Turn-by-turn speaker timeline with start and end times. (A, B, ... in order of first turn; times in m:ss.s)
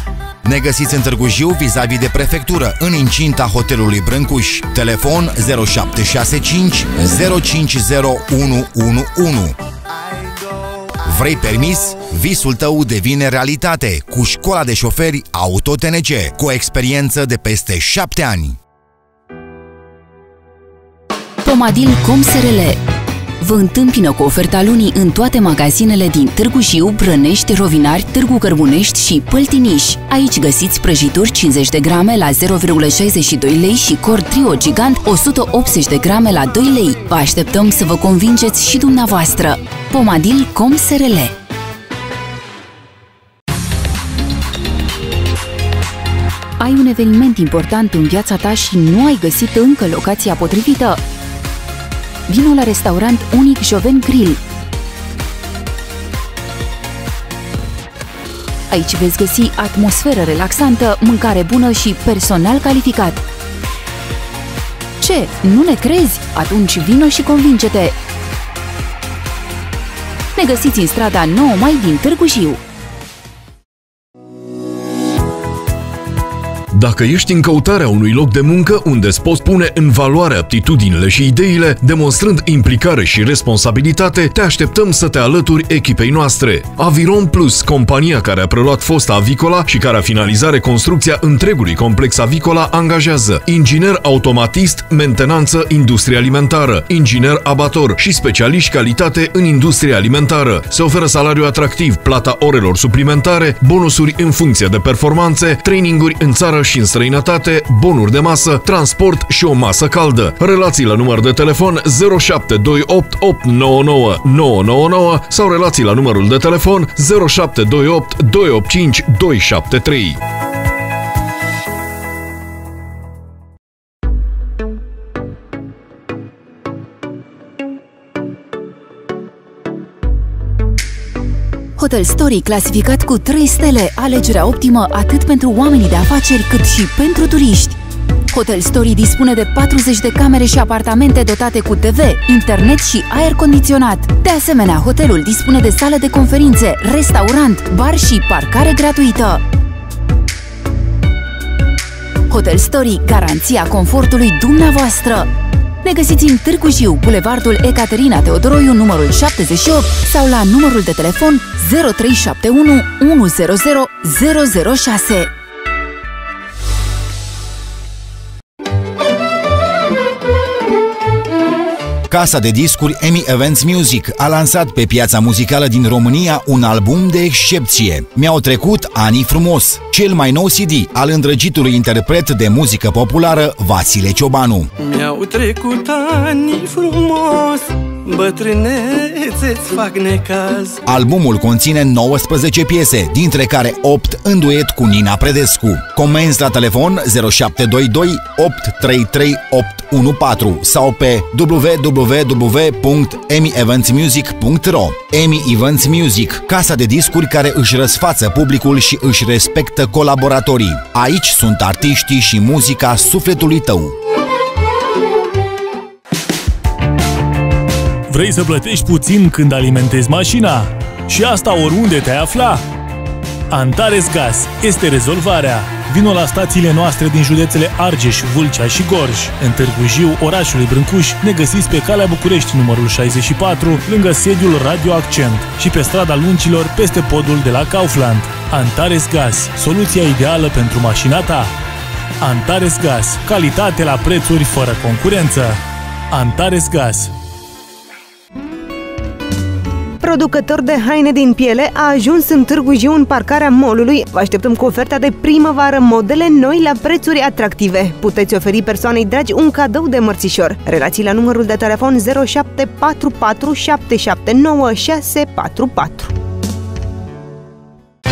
0:00.4-0:09.6 A
0:10.0-0:10.6 B
0:11.0-0:18.6 A
0:21.4-0:22.8 C
0:23.4-0:41.3 C
0:46.6-0:51.0 C
0:52.3-0:54.4 C
0:58.7-1:03.2 C
1:05.0-1:07.9 C
1:10.3-1:12.6 C
1:16.7-2:00.2 D
2:11.8-2:17.8 C
2:18.3-2:29.4 C
2:32.3-2:35.3 C
2:35.8-2:45.3 C
2:52.1-3:04.7 A
3:04.8-3:10.8 B
3:10.8-3:33.9 A
3:38.1-3:42.6 E
3:43.5-4:01.5 E
4:02.2-4:05.6 E
4:06.1-4:07.1 E
4:10.0-4:26.1 F